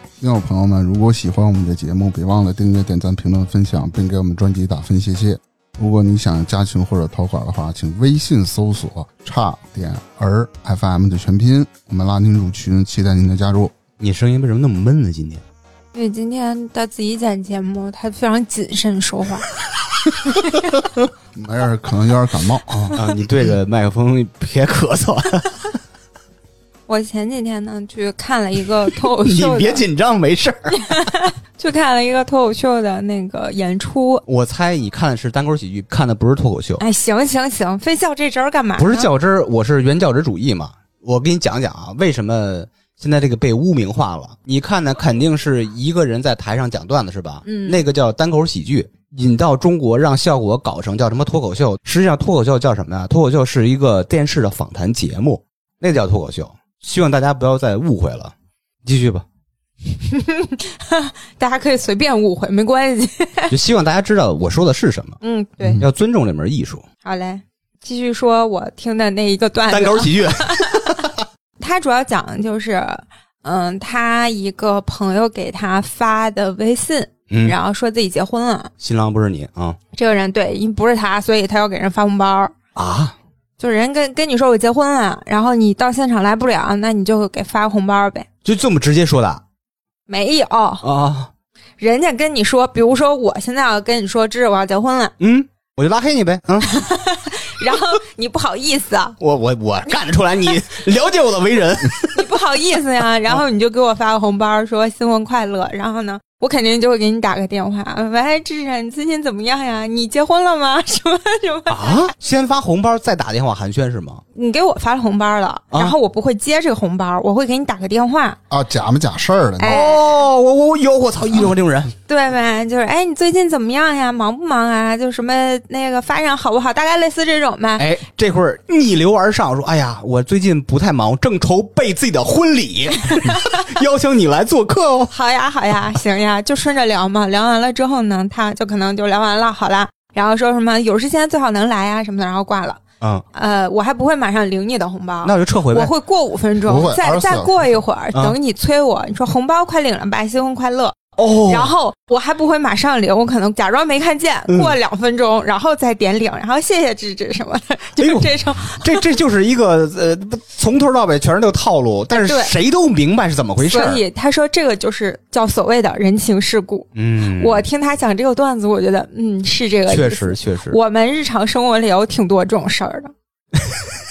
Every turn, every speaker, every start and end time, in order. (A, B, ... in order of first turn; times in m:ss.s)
0:00.2-0:13.7 A
0:14.0-0:15.4 B
0:15.9-0:19.5 C
0:21.3-0:23.0 A
0:22.7-0:25.8 B
0:26.9-0:29.8 C
0:29.2-0:31.0 B
0:30.8-0:34.2 C
0:34.3-0:36.8 B
0:36.8-0:39.1 C
0:38.8-0:58.3 B
0:47.4-0:47.8 C
0:58.8-0:59.2 B
1:00.0-1:03.5 C
1:03.5-1:05.2 B
1:05.2-1:05.8 C
1:05.8-1:06.8 B
1:07.0-1:11.1 C
1:09.7-1:11.2 B
1:11.6-1:18.7 C
1:17.3-1:17.6 B
1:18.8-1:19.8 B
1:19.9-1:22.5 C
1:22.8-1:23.2 B
1:23.6-1:28.3 C
1:28.4-1:29.4 B
1:30.1-1:30.8 C
1:30.8-1:31.3 B
1:31.8-1:35.1 C
1:35.2-1:36.8 B
1:36.6-1:39.2 C
1:39.2-1:42.2 B
1:42.1-1:52.1 C
1:51.7-1:54.2 B
1:54.4-1:58.4 C
1:58.5-1:59.8 A
1:59.6-2:00.2 C
1:59.6-2:01.9 B
2:02.1-2:07.9 C
2:07.8-2:15.1 B
2:13.2-2:13.6 C
2:15.1-2:22.8 C
2:23.3-2:39.0 C
2:25.2-2:25.9 B
2:26.7-2:27.7 A
2:31.2-2:31.7 B
2:34.5-2:34.8 B
2:38.0-2:44.0 B
2:42.1-2:42.6 C
2:43.6-2:53.1 C
2:47.0-2:47.6 B
2:49.9-2:50.8 B